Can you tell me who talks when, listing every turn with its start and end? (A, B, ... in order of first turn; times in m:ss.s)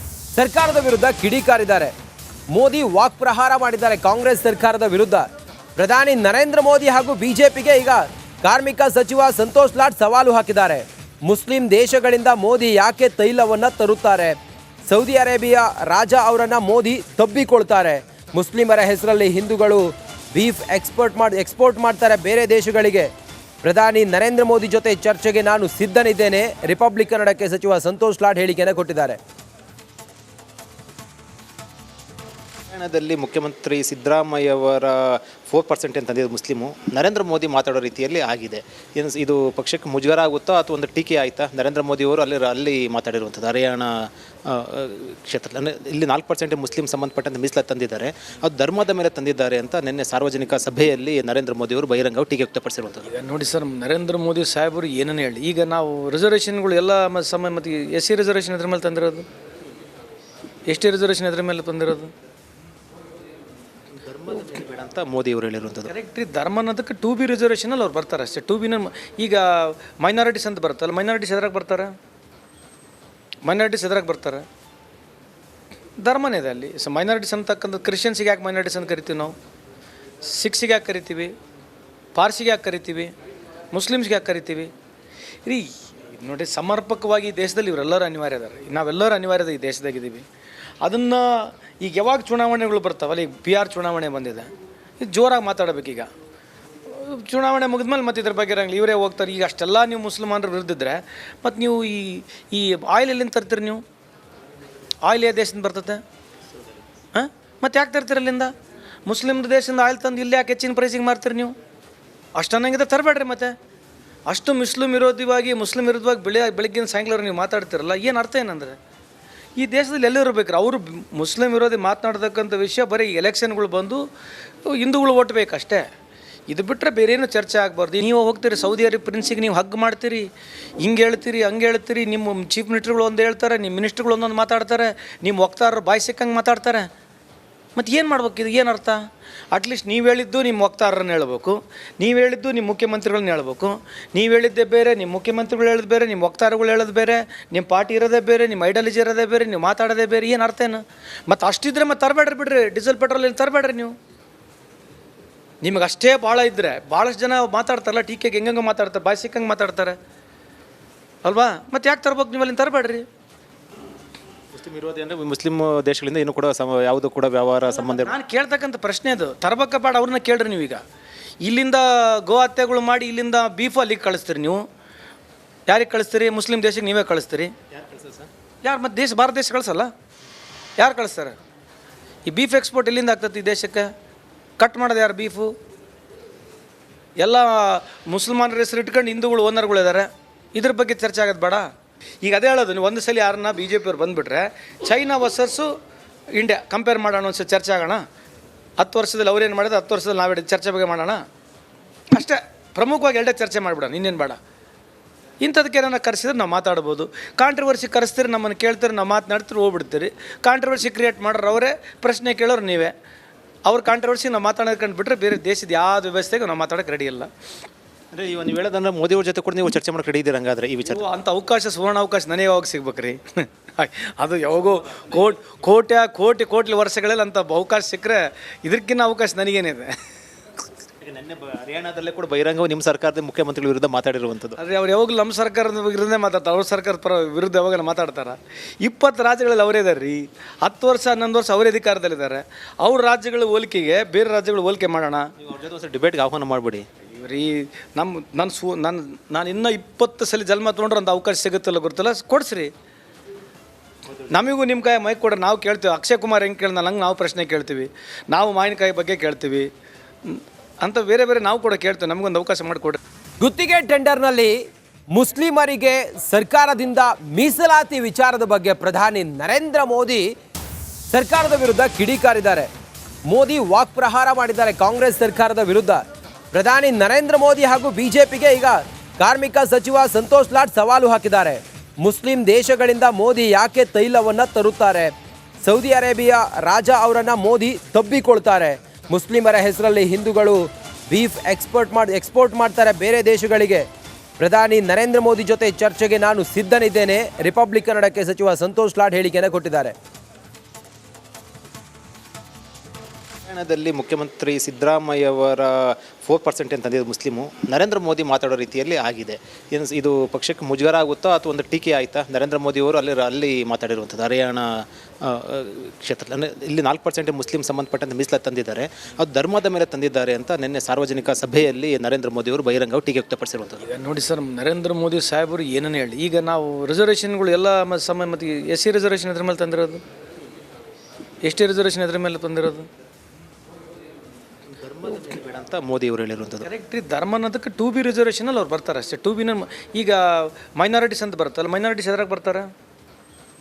0:00.3-0:01.9 A
0:02.5-0:23.1 A
0:23.6-0:29.2 A
0:32.7-0:53.1 B
0:53.1-0:59.3 C
1:00.7-1:02.1 C
1:03.9-1:05.9 B
1:05.9-1:11.9 C
1:13.4-1:14.5 C
1:16.0-1:19.4 C
1:20.3-1:21.3 C
1:22.2-1:23.1 C
1:23.7-1:24.7 C
1:25.5-1:30.3 C
1:30.8-1:36.1 C
1:36.9-1:43.8 C
1:45.0-1:46.0 C
1:47.1-1:48.5 C
1:49.1-1:51.6 C
1:52.4-1:53.6 C
1:54.3-1:58.8 C
1:59.6-2:04.0 C
2:04.8-2:05.8 C
2:06.5-2:10.3 C
2:10.8-2:16.9 C
2:17.8-2:19.0 C
2:19.5-2:33.9 C
2:35.6-2:40.0 C
2:41.2-2:43.1 C
2:44.5-2:48.1 B
2:47.7-2:50.8 C
2:51.4-2:54.6 C
2:55.7-2:57.5 C
2:57.7-2:58.3 B
2:58.6-2:59.9 C
3:00.8-3:01.4 C
3:02.3-3:03.9 C
3:04.6-3:05.5 C
3:07.2-3:11.7 C
3:12.2-3:15.7 C
3:16.4-3:18.0 C
3:18.8-3:21.2 C
3:22.2-3:24.4 C
3:25.4-3:32.9 C
3:33.7-3:37.3 C
3:38.1-3:41.1 B
3:40.8-3:49.9 C
3:45.0-3:45.6 B
3:51.0-3:54.6 B
3:54.6-4:05.3 C
4:05.4-4:06.9 B
4:07.1-4:12.7 C
4:14.3-4:19.7 C
4:20.2-4:23.0 C
4:23.4-4:24.6 A
4:25.1-4:30.3 A
4:31.1-4:32.7 A
4:33.2-4:53.9 A
4:54.4-4:59.9 A
5:03.4-5:23.8 B
5:23.8-5:30.0 C
5:31.4-5:32.9 C
5:34.7-5:36.6 B
5:36.6-5:42.7 C